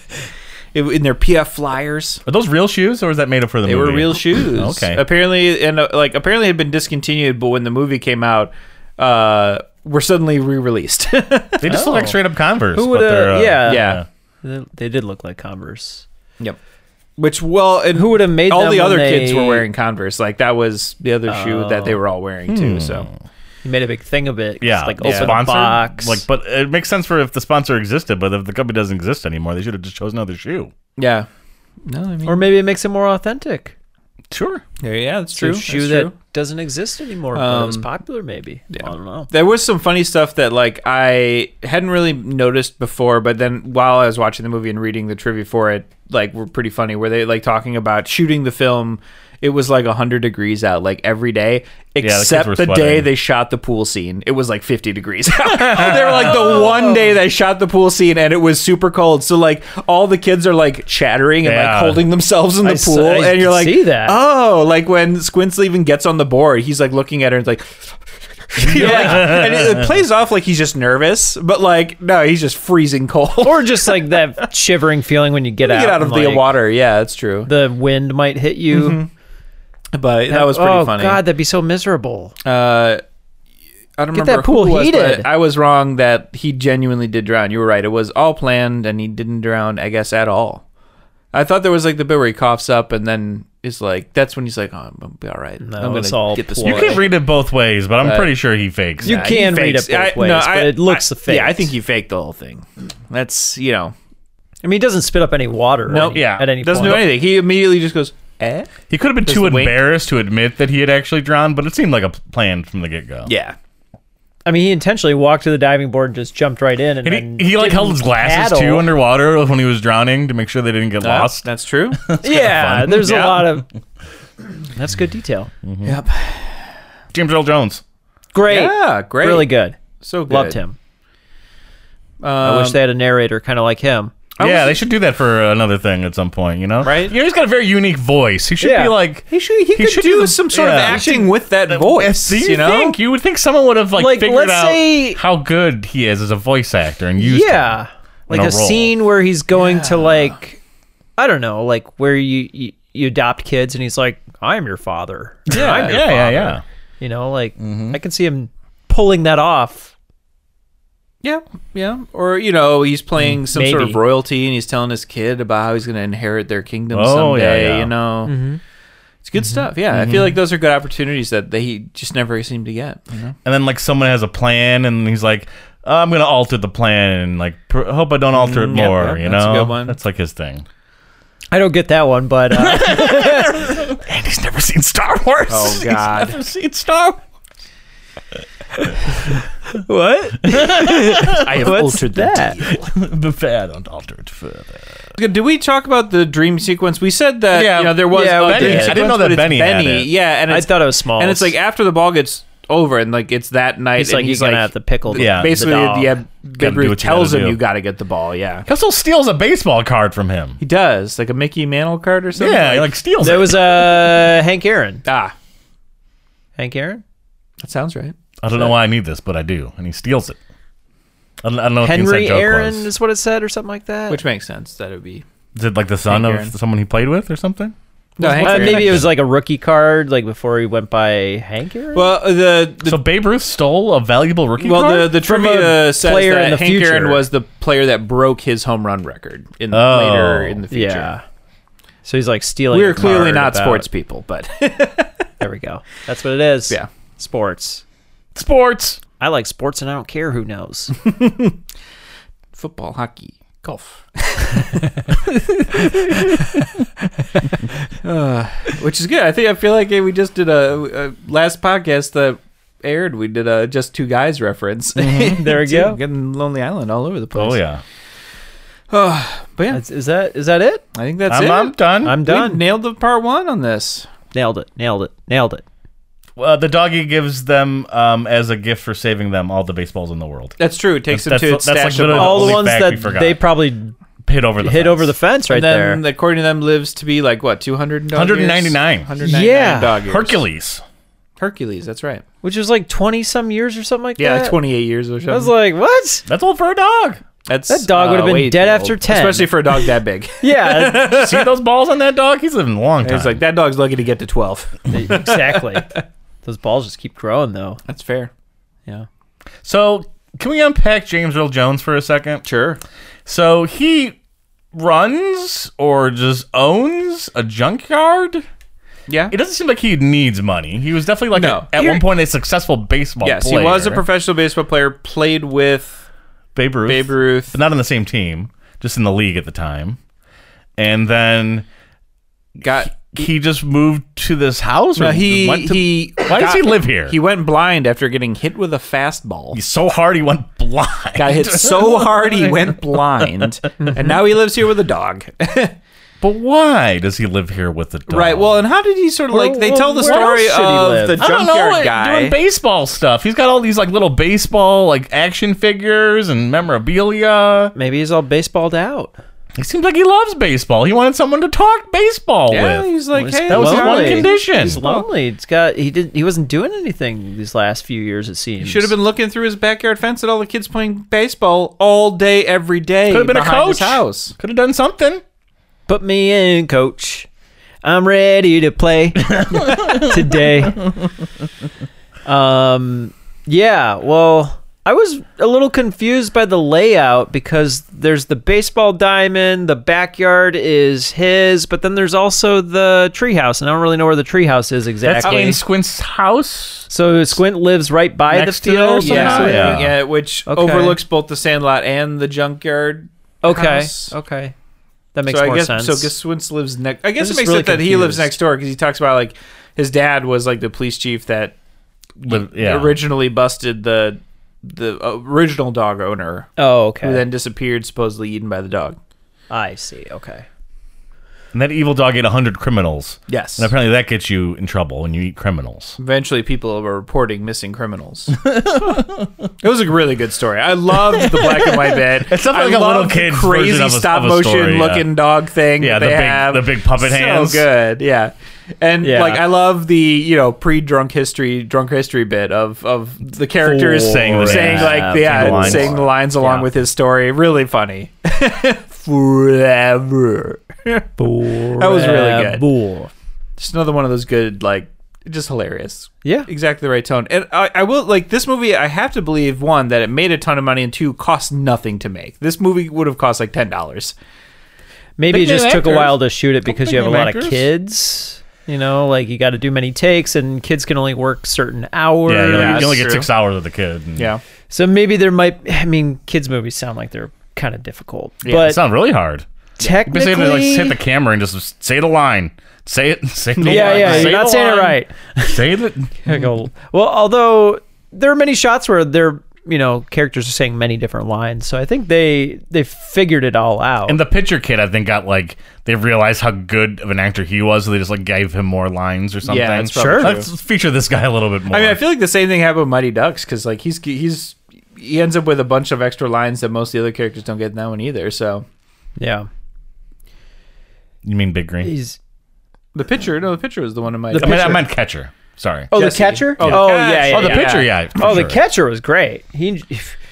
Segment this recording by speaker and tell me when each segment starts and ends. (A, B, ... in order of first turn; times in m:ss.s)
0:00.7-0:02.2 A
0:02.3-0:05.0 B
0:03.6-0:11.8 A
0:11.6-0:14.0 B
0:11.7-0:12.2 C
0:12.7-0:16.0 C
0:13.6-0:14.0 A
0:17.2-0:23.1 A
0:18.0-0:19.7 C
0:21.3-0:22.0 C
0:22.5-0:23.2 B
0:23.6-0:26.2 C
0:24.6-0:30.7 B
0:25.0-0:25.4 A
0:31.0-0:31.3 A
0:31.9-0:32.4 A
0:32.3-0:33.7 C
0:34.3-0:34.6 B
0:34.8-0:36.2 A
0:35.3-0:39.3 C
0:37.3-0:37.9 A
0:38.7-1:07.9 A
0:52.0-0:53.1 B
0:56.5-0:57.0 C
1:01.4-1:02.1 B
1:02.6-1:04.2 C
1:08.5-1:14.1 A
1:08.7-1:09.9 B
1:08.7-1:09.4 C
1:13.4-1:16.5 C
1:15.6-1:17.5 A
1:17.5-1:19.0 C
1:18.7-1:19.1 A
1:19.9-1:21.2 A
1:20.3-1:22.4 C
1:22.4-1:23.0 A
1:24.0-1:30.6 A
1:24.1-1:25.3 C
1:31.3-1:37.1 A
1:35.6-1:37.0 C
1:36.6-1:39.2 B
1:38.0-1:38.3 A
1:39.0-1:44.0 A
1:39.0-1:41.7 C
1:44.6-1:47.0 C
1:45.9-1:49.8 A
1:46.1-1:47.1 B
1:48.9-1:53.3 B
1:53.3-1:53.6 A
1:54.5-1:58.9 C
1:57.0-2:03.6 B
2:01.0-2:02.0 A
2:02.2-2:03.7 C
2:04.7-2:05.5 C
2:05.6-2:06.0 B
2:05.8-2:06.6 A
2:07.1-2:07.8 B
2:08.3-2:10.8 C
2:08.5-2:10.6 A
2:12.2-2:12.8 A
2:12.4-2:14.2 C
2:14.4-2:14.8 A
2:14.4-2:28.9 B
2:16.8-2:17.2 A
2:18.6-2:19.0 C
2:19.3-2:23.0 A
2:20.9-2:21.3 C
2:24.0-2:25.2 C
2:27.2-2:30.6 C
2:29.6-2:30.4 A
2:31.2-2:39.9 C
2:35.5-2:36.6 B
2:35.5-2:36.0 A
2:37.6-2:38.0 B
2:41.2-2:48.4 A
2:43.3-2:44.0 C
2:46.9-2:47.9 B
2:48.3-2:48.6 C
2:49.2-2:53.4 A
2:50.0-2:50.2 B
2:53.4-3:00.7 B
2:58.3-3:00.0 A
3:01.5-3:03.9 C
3:02.6-3:07.2 B
3:05.5-3:06.4 A
3:09.7-3:12.6 C
3:10.4-3:11.8 B
3:11.4-3:12.9 A
3:12.6-3:14.9 B
3:15.2-3:28.7 A
3:17.5-3:20.1 B
3:18.1-3:19.0 C
3:20.5-3:21.6 C
3:24.0-3:25.9 C
3:25.1-3:27.6 B
3:28.7-3:30.6 B
3:30.6-3:33.0 A
3:32.4-3:34.2 B
3:33.2-3:35.0 C
3:35.0-3:35.3 A
3:36.6-3:37.0 C
3:37.6-3:38.7 A
3:38.4-3:40.4 B
3:41.4-3:42.9 B
3:41.8-3:44.2 C
3:44.1-3:45.2 A
3:45.6-3:49.1 B
3:46.1-3:46.5 A
3:48.2-3:49.1 A
3:48.2-3:52.2 C
3:51.9-3:53.0 A
3:52.8-3:55.2 B
3:54.6-4:01.1 A
3:55.1-3:57.2 C
3:59.7-4:00.6 B
4:00.7-4:01.2 C
4:02.0-4:03.9 C
4:02.7-4:05.1 A
4:05.4-4:07.8 C
4:08.4-4:09.0 B
4:09.2-4:10.9 C
4:11.1-4:11.6 A
4:12.5-4:15.1 A
4:15.8-4:16.7 A
4:17.5-4:27.6 A
4:25.0-4:25.5 B
4:25.2-4:26.0 C
4:27.4-4:27.8 B
4:28.9-4:29.8 A
4:29.7-4:30.8 C
4:30.9-4:34.1 A
4:31.3-4:32.2 B
4:32.0-4:32.6 C
4:34.3-4:35.6 C
4:36.4-4:40.6 B
4:40.6-4:42.7 A
4:41.1-4:43.5 B
4:42.2-4:44.0 C
4:44.2-4:45.1 B
4:44.6-4:46.0 C
4:45.5-4:50.4 A
4:48.1-4:49.1 B
4:49.2-4:50.0 C
4:50.1-4:50.8 B
4:51.4-4:52.2 A
4:52.4-4:54.6 C
4:54.2-4:55.5 A
4:55.3-4:56.2 C
4:56.3-4:57.2 B
4:57.5-5:01.6 A
4:57.7-4:59.7 C
5:00.4-5:01.0 C
5:00.9-5:03.4 B
5:03.0-5:05.6 A
5:04.9-5:05.9 C
5:06.4-5:07.8 C
5:07.9-5:08.3 A
5:09.6-5:12.5 B
5:12.4-5:12.8 A
5:13.3-5:14.2 B
5:14.7-5:18.4 B
5:19.1-5:19.4 A
5:19.3-5:24.0 B
5:21.3-5:22.0 A
5:23.2-5:26.0 A
5:26.6-5:30.0 B
5:26.9-5:27.6 A
5:30.8-5:31.7 B
5:32.6-5:33.0 A
5:32.9-5:37.2 B
5:35.0-5:39.6 A
5:39.5-5:42.9 B
5:41.2-5:45.8 A
5:46.2-5:48.6 B
5:48.1-5:52.4 A
5:49.3-5:51.2 C
5:50.1-5:50.5 B
5:51.2-5:57.7 B
5:57.8-5:59.2 C
5:59.6-6:04.8 B
6:02.5-6:05.1 A
6:03.2-6:08.9 C
6:08.6-6:14.4 A
6:13.1-6:15.2 B
6:15.9-6:17.3 C
6:17.8-6:20.8 C
6:19.3-6:20.9 B
6:22.3-6:35.6 C
6:35.0-6:36.9 B
6:35.2-6:35.6 A
6:36.9-6:39.8 C
6:38.3-6:40.0 B
6:39.0-6:44.1 A
6:40.5-6:41.0 C
6:43.4-6:44.6 C
6:45.1-6:46.1 C
6:45.3-6:51.6 A
6:47.2-6:48.3 C
6:52.2-6:59.0 A
6:52.2-6:53.0 B
6:56.6-6:57.3 C
6:59.5-7:00.5 C
7:01.5-7:06.0 B
7:03.3-7:03.7 A
7:06.0-7:08.4 A
7:08.4-7:09.3 B
7:09.6-7:32.7 A
7:11.2-7:15.2 B
7:15.8-7:17.7 B
7:19.0-7:19.4 C
7:23.6-7:26.7 C
7:23.8-7:26.1 B
7:31.2-7:33.1 C
7:33.6-7:44.2 A
7:45.2-7:53.0 C
7:45.3-7:47.7 B
7:52.3-7:54.3 B
7:52.5-7:53.3 A
7:54.2-7:54.4 A
7:54.7-7:58.8 C
7:58.4-7:58.7 A
7:58.5-7:59.4 B
7:59.8-8:01.0 C
8:00.0-8:06.3 B
8:03.6-8:04.4 A
8:03.7-8:05.6 C
8:06.3-8:14.2 C
8:14.1-8:22.0 B
8:19.4-8:20.5 A
8:19.9-8:20.4 C
8:21.7-8:28.7 A
8:29.2-8:29.5 C
8:31.2-8:31.9 B
8:31.8-8:32.2 C
8:32.9-8:34.9 A
8:34.3-8:34.8 C
8:34.4-8:35.9 B
8:35.9-8:38.1 A
8:35.9-8:40.2 C
8:36.6-8:38.6 B